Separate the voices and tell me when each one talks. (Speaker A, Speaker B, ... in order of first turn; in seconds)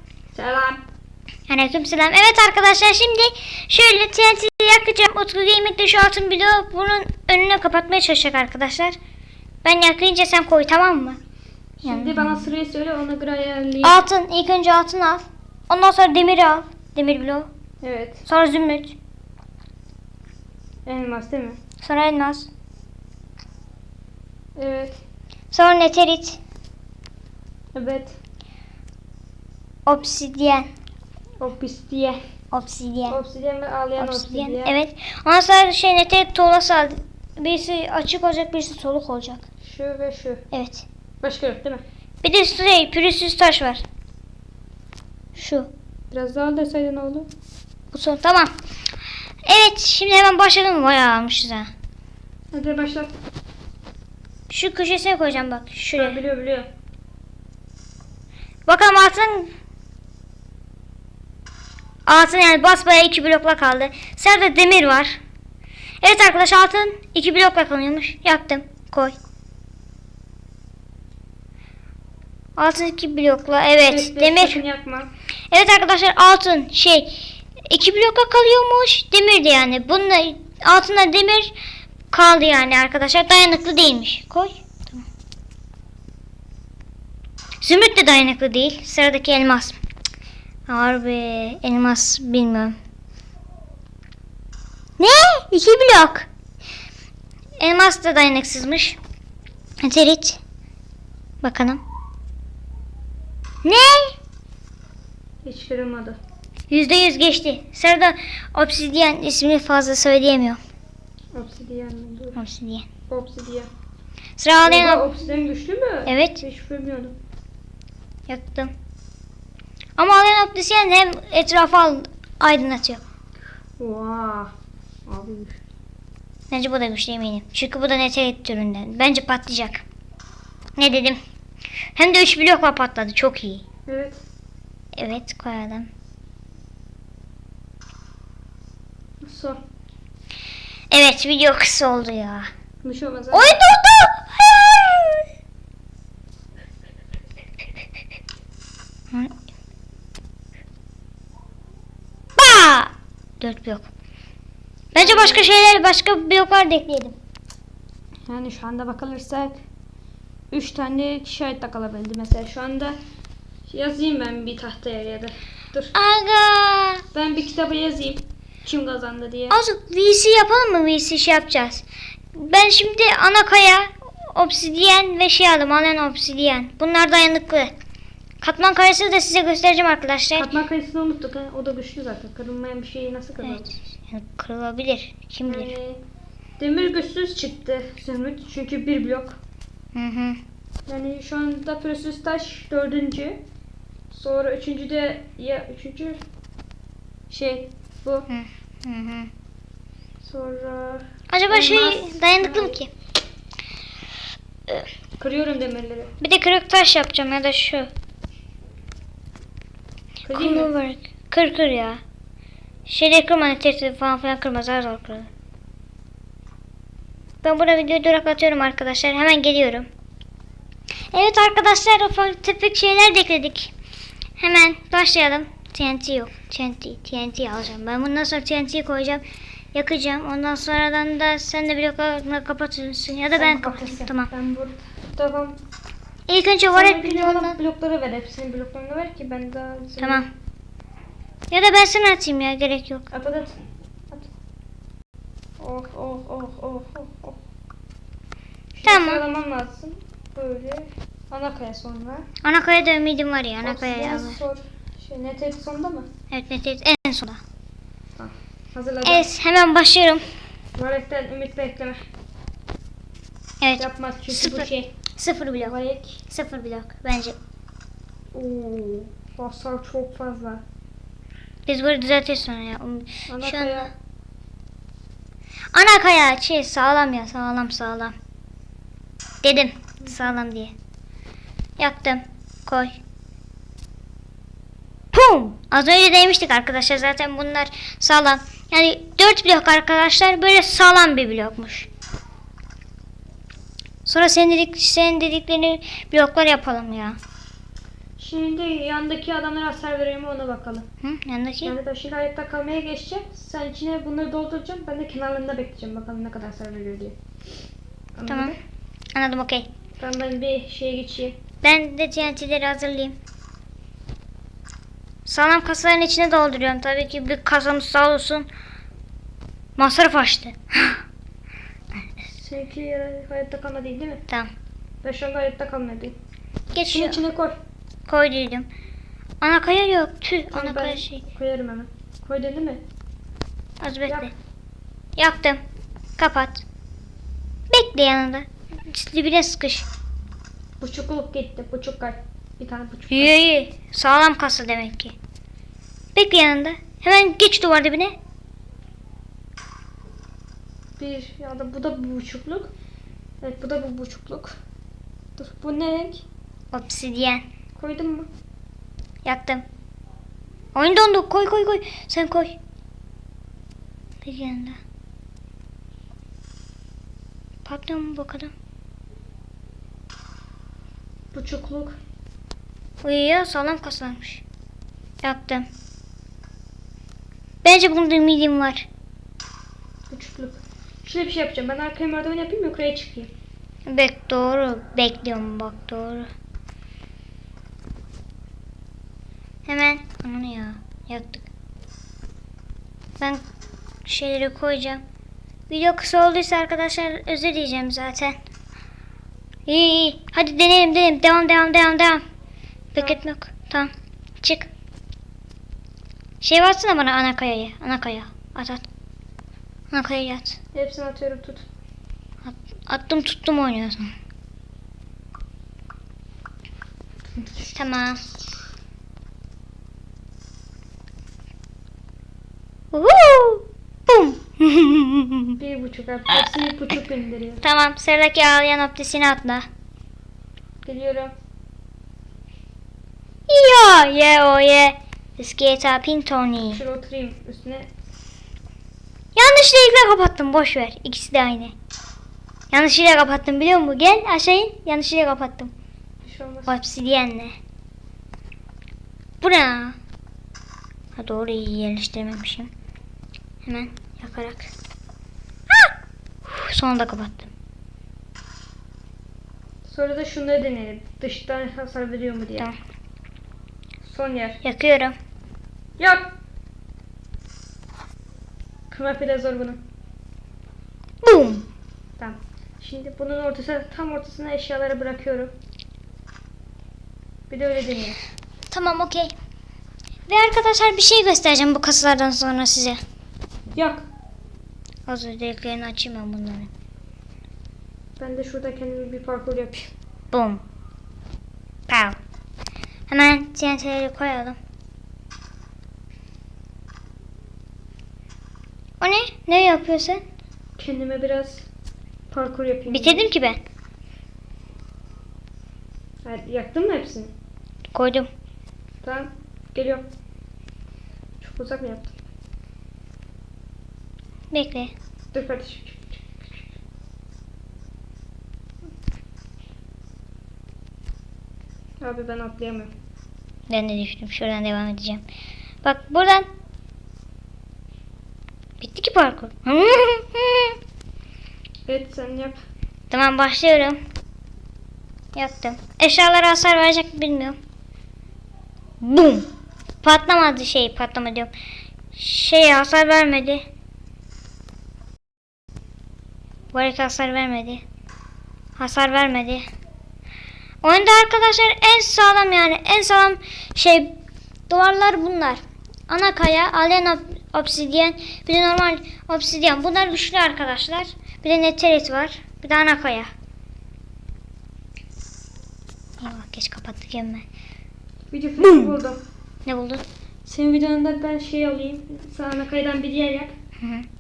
Speaker A: 0.3-0.8, 11.8-14.0, 17.8-18.2, 20.9-21.6, 24.6-25.0, 27.7-28.1, 31.4-32.2, 33.1-34.8, 39.6-40.4, 41.2-41.8, 46.1-47.3, 52.5-53.1, 56.0-56.7, 73.9-75.1, 105.4-106.2, 111.3-112.4, 113.1-113.7, 114.7-117.1, 123.8-124.5, 125.1-125.6, 133.9-134.2, 139.2-139.6, 142.8-143.6, 155.0-155.5, 158.3-159.6, 160.5-163.0, 163.7-165.9, 167.1-169.6, 180.4-183.7, 185.5-186.0, 186.6-189.4, 190.9-193.4, 194.1-196.2, 197.3-198.3, 200.2-202.8, 205.2-206.1, 210.3-210.7, 233.4-235.6, 236.7-240.2, 243.1-243.6, 245.6-247.4, 248.7-252.2, 253.6-256.1, 258.2-259.3, 260.8-262.0, 263.8-264.9, 265.6-266.2, 268.3-270.6, 273.3-273.9, 298.2-300.9, 301.6-307.1, 308.2-308.6, 310.0-311.4, 322.4-324.2, 325.0-326.1, 326.9-327.5, 330.5-332.8, 334.1-334.3, 340.8-343.4, 351.0-352.7, 353.4-354.6, 355.4-356.2, 357.8-358.3, 371.3-372.0, 380.1-383.3, 410.7-411.6, 417.4-417.7, 425.6-427.6, 430.8-431.3, 436.7-437.9, 446.2-446.8, 459.9-462.7, 464.0-464.6, 466.0-466.3, 468.9-469.8, 472.2-475.5, 477.5-478.2, 483.8-484.0, 488.2-489.9, 500.8-501.7, 502.3-503.3, 506.2-507.3, 509.0-510.1, 511.4-512.1, 515.3-516.7, 522.0-522.9, 531.9-532.6, 568.3-569.2, 570.5-573.5
Speaker B: 1.5-9.0, 9.6-11.2, 11.8-12.4, 13.8-17.5, 18.3-19.0, 21.8-22.5, 25.5-26.4, 29.9-30.7, 32.5-33.2, 34.0-39.5, 40.5-40.9, 42.2-43.8, 45.4-45.7, 47.9-48.5, 49.5-51.7, 54.5-56.2, 58.7-59.5, 62.1-65.2, 66.0-69.2, 72.6-74.6, 75.5-81.5, 82.1-85.0, 87.6-89.8, 90.7-92.8, 95.0-96.3, 97.6-99.0, 99.8-100.4, 101.4-101.8, 103.6-104.2, 106.7-110.6, 112.4-112.9, 114.4-115.0, 116.1-116.4, 118.3-118.7, 120.0-123.0, 126.5-129.8, 130.8-131.2, 132.0-133.6, 135.0-135.9, 140.9-142.5, 143.3-145.2, 152.4-153.9, 154.9-157.2, 165.9-167.0, 169.5-177.7, 178.4-180.6, 183.4-185.7, 189.9-190.4, 198.3-199.3, 201.3-202.9, 206.2-207.9, 210.3-212.0, 212.9-215.3, 217.4-219.9, 221.1-223.7, 224.4-229.2, 229.7-234.3, 236.3-237.6, 240.0-240.3, 241.5-243.1, 248.8-249.2, 252.4-254.4, 256.3-257.4, 259.1-260.3, 263.6-265.8, 266.3-267.4, 271.7-273.9, 275.7-278.1, 279.4-280.7, 281.8-283.0, 285.1-291.9, 294.1-297.2, 301.0-301.8, 308.3-308.6, 309.1-309.7, 311.6-313.2, 315.3-318.5, 319.8-321.0, 326.7-327.2, 328.1-328.7, 329.4-331.2, 333.8-334.3, 335.2-335.6, 336.2-336.6, 337.7-339.9, 343.1-345.1, 346.1-348.2, 356.7-357.5, 359.2-359.6, 360.8-362.6, 364.2-364.8, 367.6-368.5, 373.0-374.4, 375.2-375.7, 377.6-378.9, 383.9-386.3, 389.7-391.5, 394.1-395.0, 395.7-398.4, 399.7-402.2, 402.9-403.9, 404.4-404.7, 406.4-408.9, 409.9-410.6, 412.4-414.1, 417.7-418.3, 422.9-425.6, 427.6-429.7, 433.5-436.8, 439.4-441.8, 442.7-445.7, 446.7-447.5, 449.4-450.0, 451.2-452.7, 453.7-454.7, 456.5-457.5, 464.6-465.1, 471.2-471.7, 478.7-479.3, 480.3-483.0, 485.1-486.7, 490.3-490.6, 491.9-492.2, 493.1-494.6, 499.0-500.2, 502.9-503.6, 507.9-508.3, 514.5-514.9, 523.7-525.2, 525.8-526.5, 528.8-530.8, 533.1-534.0, 535.4-537.6, 539.0-539.5, 540.0-541.5, 542.1-543.6, 546.7-547.8, 548.8-549.6, 550.8-554.1, 554.7-563.3, 566.2-567.5, 568.6-568.9, 569.7-570.0, 573.8-574.1